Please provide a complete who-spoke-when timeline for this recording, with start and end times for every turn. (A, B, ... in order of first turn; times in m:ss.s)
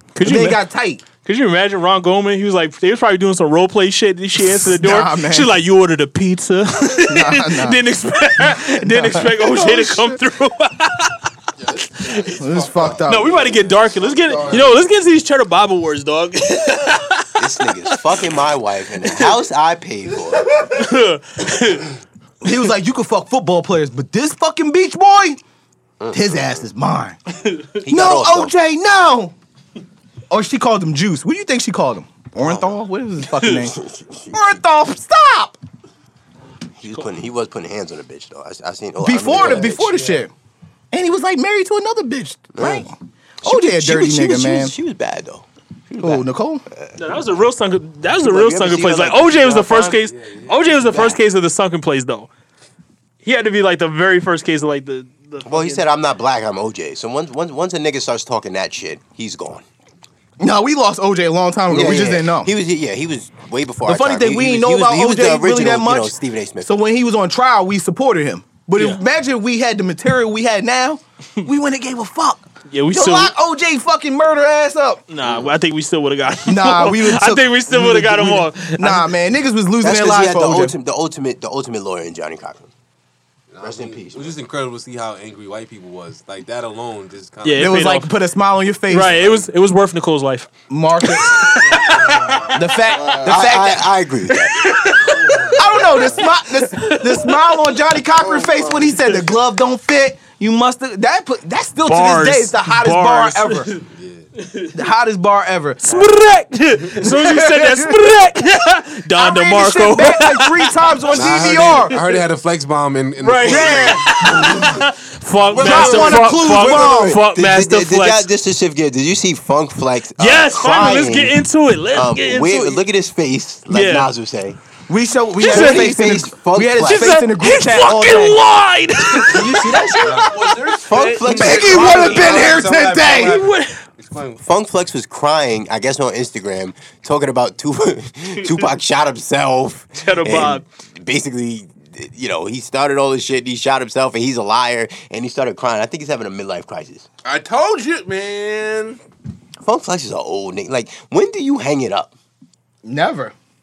0:00.1-0:00.6 A
0:00.2-0:01.0 B
0:01.2-0:11.3 A
0:04.4-0:05.5 B
0:06.9-0:07.8 B
0:08.4-0:10.2 B
0:11.6-0:14.8 C
0:12.0-0:12.3 A
0:12.3-0:13.5 B
0:13.0-0:18.2 A
0:17.4-0:20.6 D
0:19.0-0:19.3 A
0:20.7-0:21.9 A
0:22.4-0:25.4 B
0:26.0-0:26.6 D
0:26.1-0:27.2 B
0:27.8-0:28.5 D
0:27.9-0:29.3 B
0:30.3-0:33.8 B
0:32.4-0:32.8 D
0:33.3-0:33.7 A
0:33.6-0:34.5 D
0:34.3-0:35.6 B
0:36.8-0:39.9 D
0:39.0-0:40.3 B
0:39.4-0:40.2 E
0:40.9-0:44.7 B
0:42.5-0:42.9 D
0:43.4-0:47.2 D
0:46.0-0:46.6 B
0:47.0-0:52.3 A
0:48.2-0:50.0 D
0:49.8-0:50.9 E
0:50.8-0:51.2 D
0:53.2-0:55.8 A
0:55.4-0:59.6 D
1:00.4-1:02.5 B
1:01.7-1:06.7 D
1:03.8-1:15.0 B
1:12.7-1:13.3 A
1:15.1-1:19.1 A
1:15.2-1:15.5 D
1:16.4-1:20.7 B
1:19.8-1:22.7 D
1:23.5-1:27.9 E
1:23.6-1:24.4 D
1:27.4-1:28.1 A
1:27.5-1:29.4 B
1:28.9-1:32.5 A
1:30.7-1:31.6 B
1:32.5-1:34.0 B
1:32.9-1:33.4 C
1:33.2-1:34.6 D
1:34.3-1:35.6 A
1:35.1-1:36.1 C
1:35.5-1:43.7 B
1:36.4-1:37.7 A
1:38.2-1:38.9 C
1:41.9-1:43.8 A
1:43.9-1:44.2 E
1:44.4-1:44.7 A
1:44.7-1:46.0 B
1:45.8-1:50.8 A
1:47.0-1:48.0 B
1:49.1-1:52.0 B
1:51.1-1:54.7 E
1:53.2-1:58.3 A
1:53.4-1:54.7 B
1:55.5-1:57.2 B
1:55.6-2:01.4 D
2:00.2-2:02.8 A
2:01.9-2:04.6 D
2:03.7-2:04.1 A
2:04.9-2:08.4 B
2:05.4-2:06.0 A
2:05.4-2:07.2 D
2:06.8-2:10.1 A
2:09.0-2:13.4 B
2:09.9-2:10.5 E
2:10.3-2:12.6 C
2:10.8-2:12.2 D
2:11.2-2:14.4 E
2:13.2-2:13.8 A
2:14.4-2:27.0 D
2:19.9-2:20.6 A
2:27.2-2:29.0 C
2:29.6-2:32.1 D
2:32.8-2:33.3 B